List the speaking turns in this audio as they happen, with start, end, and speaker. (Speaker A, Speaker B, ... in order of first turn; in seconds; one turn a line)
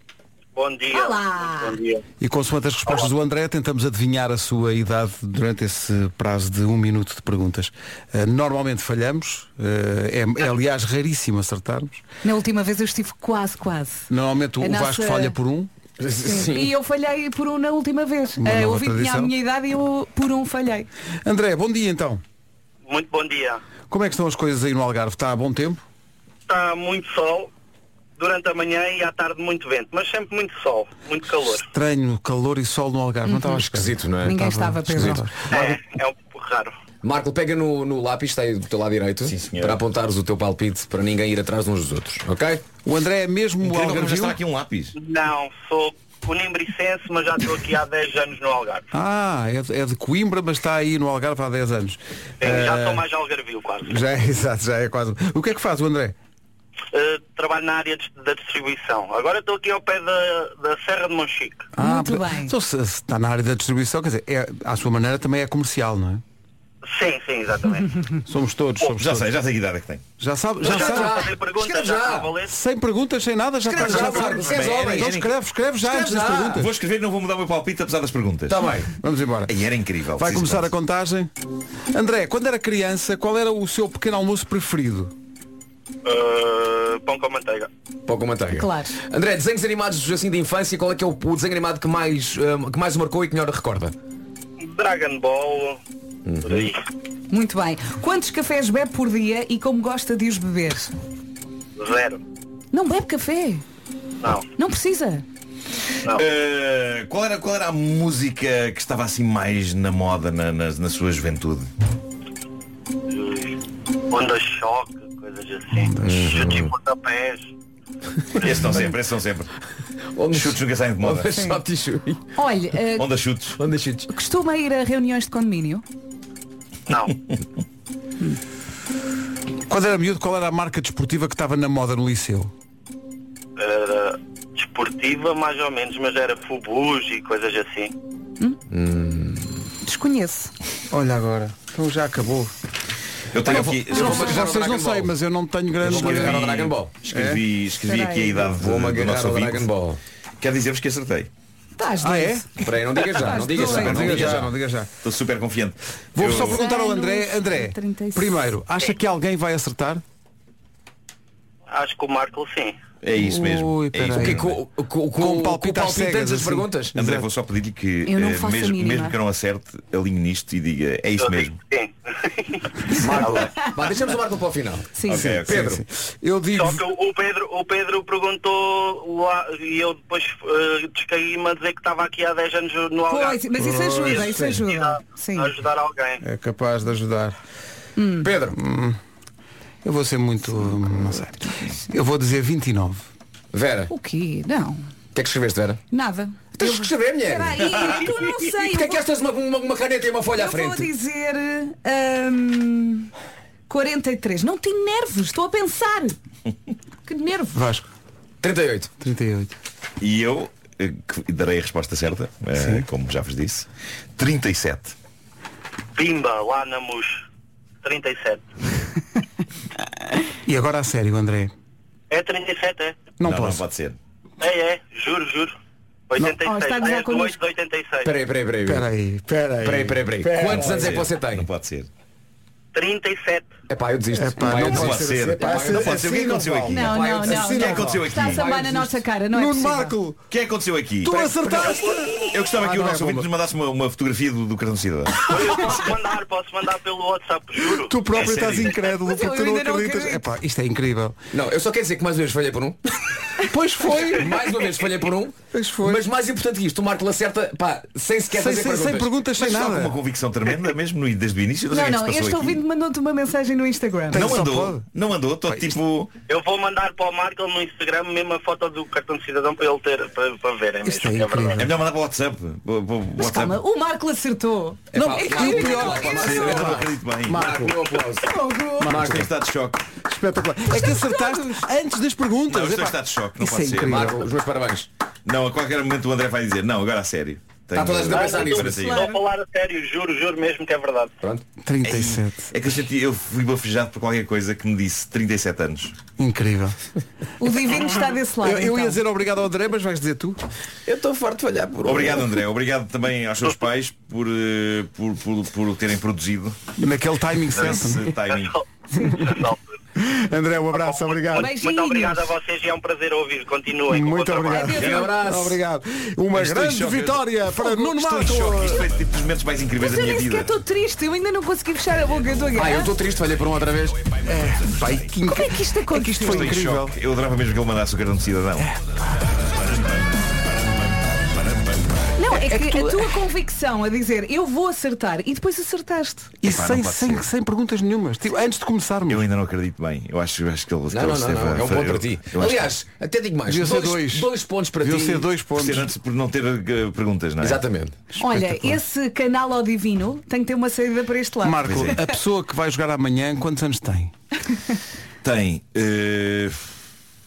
Speaker A: 0.5-2.0
Speaker B: 0.9-1.8
Speaker C: 2.2-12.0
Speaker B: 12.2-14.1
Speaker C: 14.1-15.7
Speaker B: 14.6-15.3
Speaker D: 16.0-16.7
Speaker B: 16.2-20.9
Speaker C: 18.4-19.3
Speaker C: 21.2-22.2
Speaker A: 22.9-23.6
Speaker C: 23.9-25.8
Speaker A: 26.5-27.5
Speaker A: 28.2-31.7
Speaker C: 31.6-35.5
Speaker B: 33.2-33.6
Speaker D: 33.6-34.3
Speaker B: 34.2-35.4
Speaker A: 35.5-36.8
Speaker D: 37.0-42.6
Speaker E: 39.2-39.8
Speaker C: 42.8-44.4
Speaker E: 43.6-44.9
Speaker A: 45.0-48.9
Speaker C: 48.9-53.0
Speaker A: 52.4-54.0
Speaker C: 53.8-56.1
Speaker A: 56.9-61.7
Speaker C: 61.8-66.2
Speaker B: 61.8-62.5
Speaker A: 66.8-68.0
Speaker C: 68.2-69.3
Speaker E: 69.0-70.0
Speaker C: 70.2-71.2
Speaker D: 70.6-72.3
Speaker A: 70.6-72.5
Speaker C: 72.5-76.7
Speaker D: 73.6-75.1
Speaker E: 73.7-75.3
Speaker D: 75.8-76.6
Speaker E: 76.5-78.7
Speaker D: 78.5-78.9
Speaker C: 79.0-79.5
Speaker E: 79.5-80.7
Speaker C: 80.2-81.3
Speaker C: 81.9-85.1
Speaker A: 86.0-87.7
Speaker D: 88.0-93.9
Speaker B: 88.5-89.0
Speaker A: 94.6-95.8
Speaker D: 96.2-96.7
Speaker A: 96.4-96.8
Speaker B: 97.3-100.9
Speaker A: 101.8-102.2
Speaker B: 102.7-103.6
Speaker A: 104.2-104.5
Speaker B: 104.5-105.2
Speaker E: 106.1-111.7
Speaker A: 113.1-117.5
Speaker C: 115.7-116.4
Speaker D: 116.0-116.7
Speaker E: 118.4-119.5
Speaker D: 120.1-122.3
Speaker E: 120.3-121.4
Speaker B: 121.3-121.6
Speaker B: 122.3-123.1
Speaker E: 122.9-123.6
Speaker D: 123.5-124.1
Speaker B: 124.1-125.8
Speaker A: 126.9-127.2
Speaker C: 129.7-132.5
Speaker A: 133.6-137.9
Speaker D: 138.7-139.7
Speaker B: 139.8-140.5
Speaker C: 140.9-142.5
Speaker E: 143.3-144.5
Speaker C: 143.4-146.5
Speaker D: 143.5-145.1
Speaker B: 143.9-144.3
Speaker D: 145.8-146.9
Speaker E: 145.8-149.7
Speaker C: 147.1-147.4
Speaker B: 147.8-148.5
Speaker D: 148.6-150.0
Speaker E: 150.4-151.3
Speaker B: 151.8-154.1
Speaker C: 152.0-152.6
Speaker D: 152.6-154.5
Speaker C: 153.2-154.9
Speaker E: 153.6-156.6
Speaker C: 156.1-160.0
Speaker B: 156.3-158.5
Speaker A: 161.7-162.8
Speaker E: 163.0-164.6
Speaker C: 163.2-164.5
Speaker D: 164.1-166.9
Speaker C: 165.2-167.2
Speaker E: 166.9-171.6
Speaker B: 168.1-169.1
Speaker A: 171.2-173.5
Speaker D: 172.9-175.8
Speaker B: 175.0-175.3
Speaker E: 175.1-175.7
Speaker C: 175.1-176.8
Speaker A: 176.5-183.4
Speaker B: 183.1-185.5
Speaker C: 183.6-184.6
Speaker A: 184.0-186.2
Speaker C: 186.2-187.4
Speaker B: 188.0-188.3
Speaker D: 188.2-188.6
Speaker C: 188.5-189.0
Speaker C: 189.8-193.0
Speaker D: 193.5-193.9
Speaker B: 193.9-194.8
Speaker D: 195.1-195.8
Speaker B: 195.9-199.0
Speaker D: 196.5-200.9
Speaker B: 200.3-203.1
Speaker B: 203.7-206.2
Speaker B: 207.0-207.6
Speaker C: 207.5-207.9
Speaker D: 208.4-208.9
Speaker C: 209.0-209.5
Speaker E: 210.0-214.9
Speaker C: 212.5-212.8
Speaker A: 215.9-217.2
Speaker A: 217.8-218.4
Speaker C: 220.4-221.5
Speaker A: 222.1-223.0
Speaker C: 223.2-223.6
Speaker E: 223.2-224.0
Speaker A: 224.4-225.5
Speaker A: 226.1-228.1
Speaker B: 226.4-227.4
Speaker D: 228.0-228.9
Speaker C: 228.7-231.0
Speaker D: 229.6-231.5
Speaker E: 230.6-231.9
Speaker A: 232.7-233.5
Speaker D: 233.7-236.1
Speaker C: 234.1-240.2
Speaker E: 234.4-238.5
Speaker B: 236.7-239.9
Speaker D: 236.9-237.8
Speaker E: 240.3-241.2
Speaker C: 241.0-243.3
Speaker A: 241.5-242.3
Speaker E: 242.3-245.3
Speaker A: 245.2-248.9
Speaker C: 245.3-245.8
Speaker C: 247.8-251.2
Speaker B: 249.0-250.2
Speaker D: 251.3-253.0
Speaker C: 253.4-254.3
Speaker D: 253.8-259.2
Speaker C: 255.5-256.1
Speaker C: 258.3-260.0
Speaker E: 259.3-262.6
Speaker B: 261.7-264.3
Speaker E: 264.1-266.1
Speaker C: 264.1-264.8
Speaker A: 266.3-271.7
Speaker C: 270.8-271.6
Speaker E: 271.6-273.6
Speaker B: 273.2-276.7
Speaker D: 274.9-278.3
Speaker C: 274.9-277.8
Speaker E: 275.8-277.5
Speaker B: 278.2-278.9
Speaker C: 278.8-279.3
Speaker D: 278.8-279.3
Speaker E: 278.9-279.9
Speaker C: 280.0-284.2
Speaker B: 280.7-281.6
Speaker E: 282.5-284.2
Speaker D: 283.9-284.9
Speaker E: 285.2-289.1
Speaker D: 287.7-288.9
Speaker A: 288.0-291.1
Speaker B: 288.6-289.2
Speaker C: 291.6-292.5
Speaker E: 291.8-295.9
Speaker C: 296.2-296.8
Speaker B: 297.4-299.0
Speaker C: 298.4-300.4
Speaker D: 300.9-302.4
Speaker E: 301.8-306.8
Speaker C: 306.8-308.1
Speaker E: 307.5-308.6
Speaker A: 308.3-309.7
Speaker B: 308.9-309.3
Speaker C: 310.0-311.5
Speaker A: 310.7-314.8
Speaker B: 311.3-312.3
Speaker C: 313.9-318.8
Speaker B: 314.5-315.2
Speaker E: 314.8-315.0
Speaker D: 314.8-315.6
Speaker E: 316.4-317.1
Speaker B: 317.6-317.9
Speaker E: 317.7-320.5
Speaker B: 319.8-322.9
Speaker D: 322.5-324.2
Speaker C: 324.2-326.9
Speaker B: 325.2-326.6
Speaker E: 326.2-328.7
Speaker C: 328.6-328.9
Speaker B: 332.1-336.3
Speaker C: 332.3-333.1
Speaker C: 336.4-339.2
Speaker E: 336.4-337.3
Speaker E: 339.1-342.7
Speaker D: 340.9-345.3
Speaker C: 343.5-345.9
Speaker E: 345.5-347.6
Speaker D: 347.4-348.0
Speaker C: 348.1-348.8
Speaker B: 348.2-352.1
Speaker C: 351.4-354.1
Speaker E: 351.6-352.0
Speaker E: 355.2-356.7